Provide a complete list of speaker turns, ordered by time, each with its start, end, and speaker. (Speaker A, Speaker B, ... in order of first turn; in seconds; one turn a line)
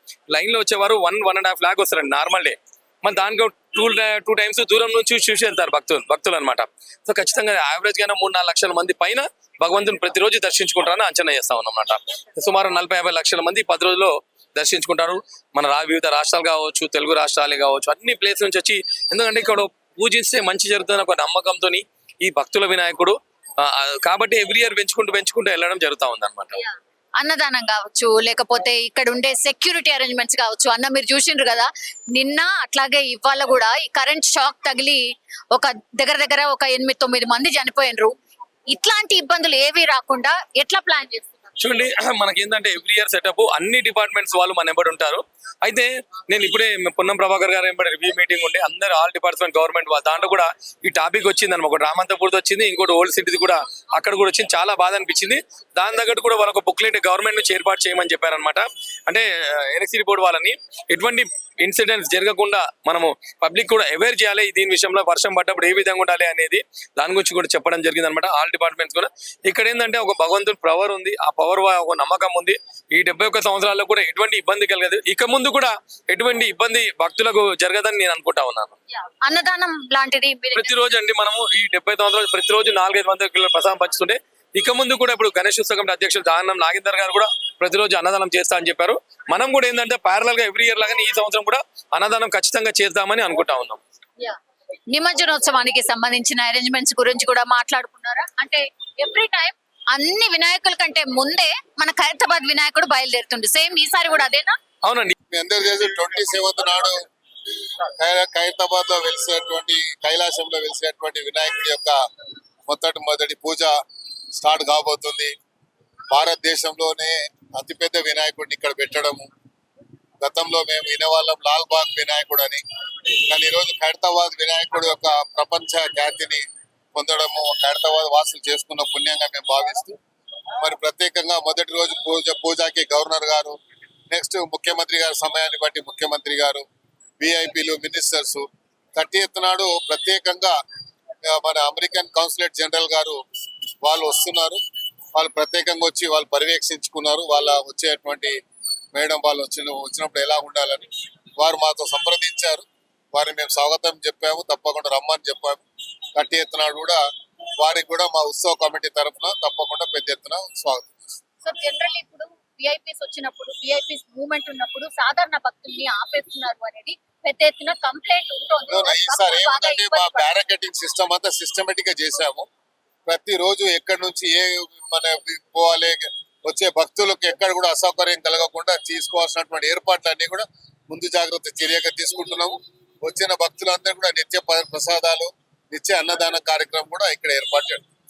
Speaker A: 0.3-26.6
Speaker B: 26.6-35.0
Speaker B: 35.5-38.1
Speaker B: 38.7-41.5
Speaker A: 41.6-78.7
Speaker B: 79.2-80.8
Speaker A: 80.5-93.8
Speaker B: 94.9-104.5
Speaker A: 104.8-105.1
Speaker C: 105.3-107.0
Speaker C: 108.0-112.0
Speaker C: 112.7-113.7
Speaker C: 114.3-115.3
Speaker C: 116.1-119.3
Speaker C: 120.2-122.6
Speaker C: 123.3-126.4
Speaker C: 126.9-130.0
Speaker C: 130.6-133.6
Speaker C: 134.1-136.7
Speaker C: 137.2-140.5
Speaker C: 141.3-143.2
Speaker C: 143.8-144.6
Speaker C: 145.1-148.3
Speaker C: 148.9-155.6
Speaker C: 156.2-157.0
Speaker C: 157.6-161.1
Speaker B: 161.4-170.3
Speaker C: 168.7-172.5
Speaker C: 173.1-187.8